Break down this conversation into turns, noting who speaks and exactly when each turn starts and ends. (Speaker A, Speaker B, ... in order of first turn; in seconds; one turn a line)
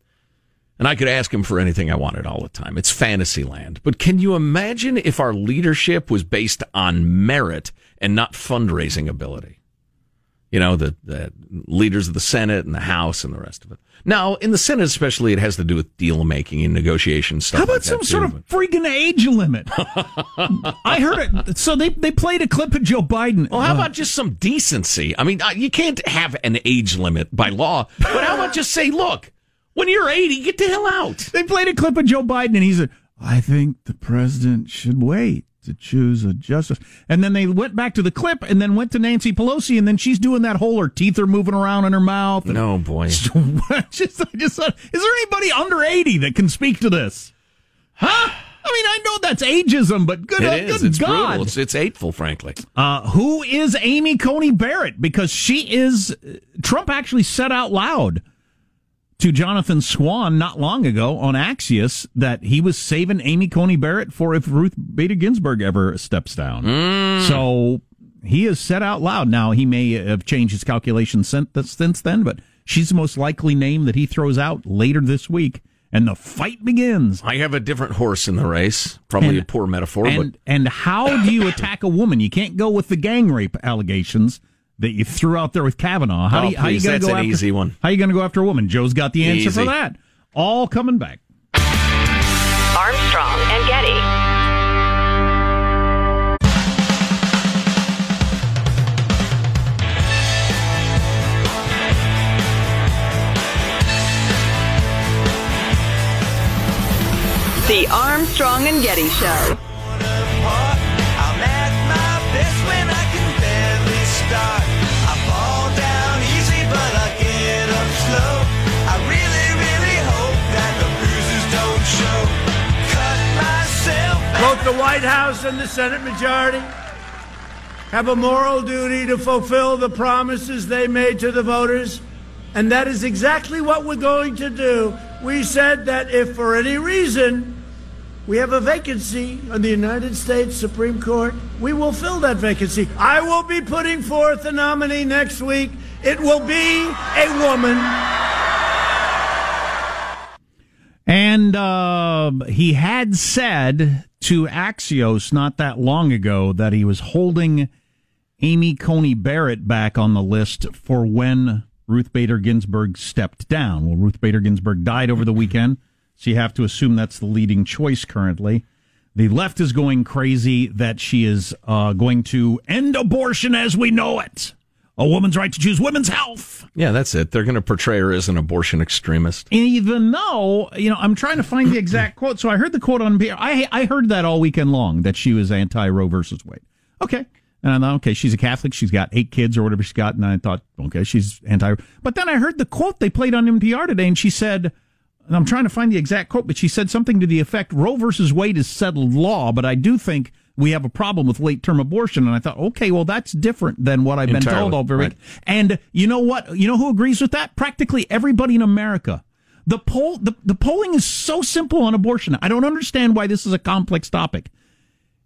Speaker A: 0.8-9.6
Speaker A: 10.5-18.4
Speaker B: 17.5-23.9
Speaker A: 19.8-20.7
Speaker A: 23.5-31.3
Speaker B: 31.3-47.3
Speaker A: 42.5-43.2
Speaker B: 48.0-51.5
Speaker A: 50.4-52.6
Speaker B: 52.8-58.2
Speaker B: 59.2-77.2
Speaker A: 66.6-67.4
Speaker A: 77.2-80.3
Speaker B: 79.2-79.5
Speaker B: 80.0-91.2
Speaker A: 86.3-87.8
Speaker A: 89.2-89.7
Speaker C: 92.7-94.1
Speaker C: 107.6-109.6
Speaker C: 110.2-124.6
Speaker D: 124.4-126.7
Speaker D: 127.9-132.0
Speaker D: 132.5-137.6
Speaker D: 138.3-148.3
Speaker B: 151.1-157.7
Speaker B: 158.4-168.6
Speaker B: 169.2-176.7
Speaker A: 176.8-179.5
Speaker B: 179.5-194.7
Speaker B: 195.3-214.5
Speaker A: 204.3-205.1